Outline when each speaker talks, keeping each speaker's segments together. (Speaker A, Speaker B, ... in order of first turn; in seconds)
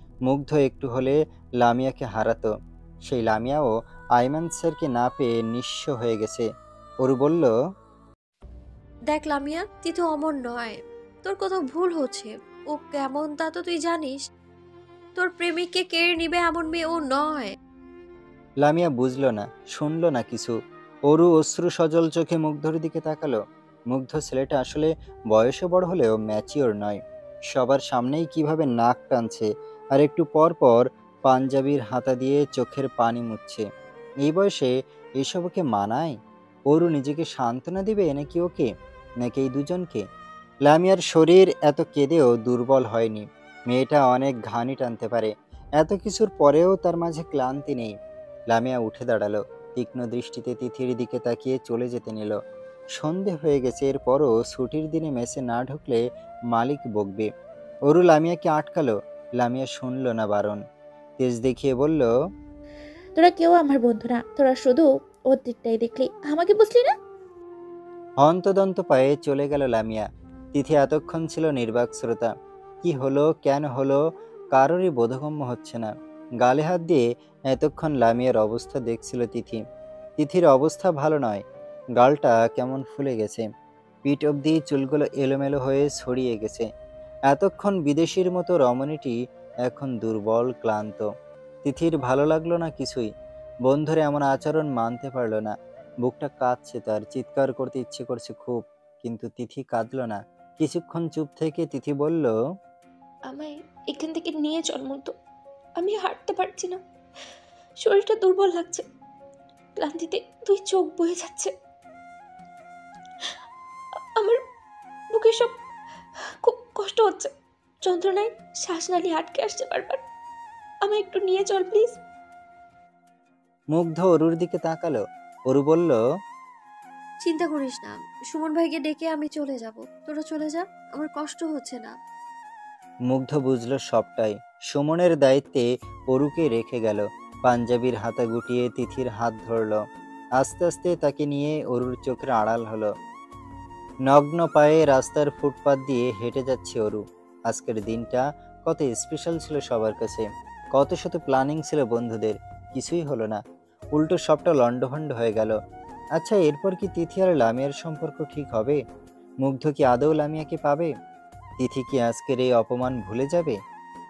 Speaker A: 0.3-2.5, 3.1-6.5, 7.0-7.5, 18.6-20.5, 21.1-23.4, 23.9-27.0, 27.5-33.6, 34.2-36.2, 36.7-38.7, 39.2-40.0, 40.7-48.0, 48.5-52.4, 53.0-57.3, 57.9-60.6, 61.2-62.1, 68.2-72.3, 72.8-74.0, 74.5-79.6, 80.2-81.4, 82.0-83.5, 84.0-86.7, 87.3-91.1, 91.6-93.1, 93.7-102.3, 123.7-126.0, 133.1-139.8, 140.4-142.9, 144.1-153.4, 153.9-155.6, 156.2-158.8, 159.4-160.9, 161.6-163.6
Speaker B: 9.1-14.2, 15.2-17.5, 127.2-131.9
Speaker C: 63.2-66.9
Speaker D: 103.3-105.2, 105.8-106.8, 107.8-108.8, 109.8-111.5, 115.1-115.6, 116.4-117.3, 117.8-120.0, 120.8-122.0